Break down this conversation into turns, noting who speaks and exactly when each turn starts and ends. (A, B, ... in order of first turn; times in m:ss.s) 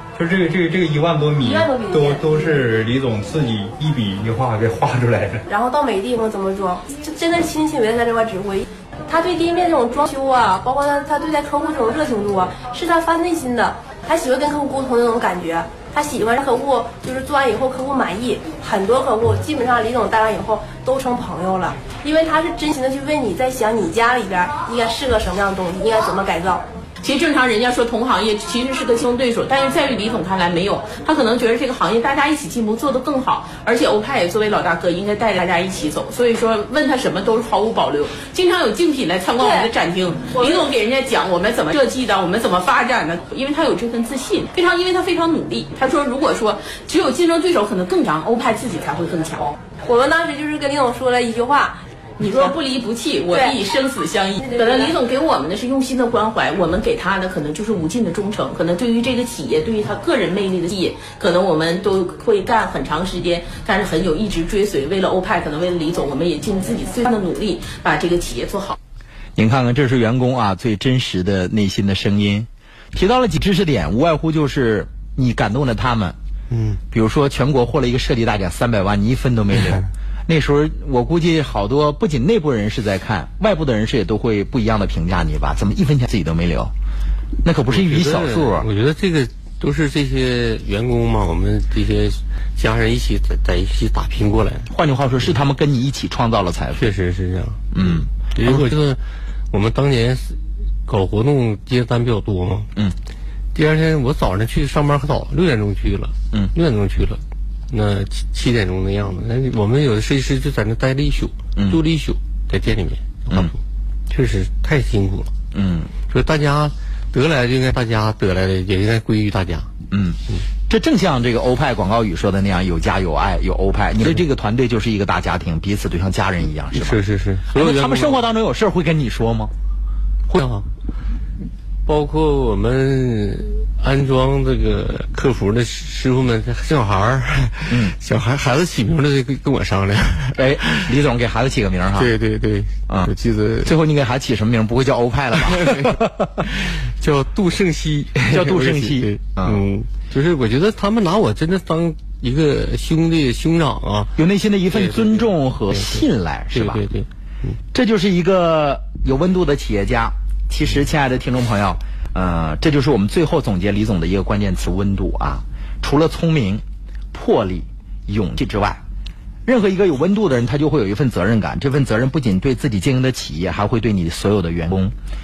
0:00.2-0:05.4 A
0:01.4-0:02.5 B
0:05.5-0:26.6 B
0:27.0-0:49.5 C
0:39.4-0:39.7 B
0:40.3-0:40.6 B
0:49.8-0:52.5 B
0:52.2-1:08.8 C
0:54.4-0:54.9 B
1:09.4-1:16.2 D
1:16.5-1:16.8 E
1:16.9-1:26.7 D
1:27.4-1:28.7 D
1:27.7-1:34.7 E
1:34.7-1:36.9 D
1:36.8-1:39.0 E
1:37.7-1:38.7 D
1:39.5-1:42.7 E
1:43.6-1:53.6 E
1:51.6-1:51.8 D
1:54.1-1:55.3 E
1:55.5-1:55.9 D
1:56.1-1:59.7 E
1:59.9-2:09.5 D
2:06.7-2:08.3 E
2:10.3-2:10.7 E
2:11.9-2:20.9 E
2:17.7-2:18.0 D
2:20.4-2:22.1 D
2:22.0-2:23.7 E
2:23.6-2:26.0 D
2:25.5-2:34.2 E
2:28.2-2:29.6 D
2:34.2-2:36.8 D
2:34.7-2:37.5 E
2:37.7-2:48.8 D
2:49.5-2:55.0 D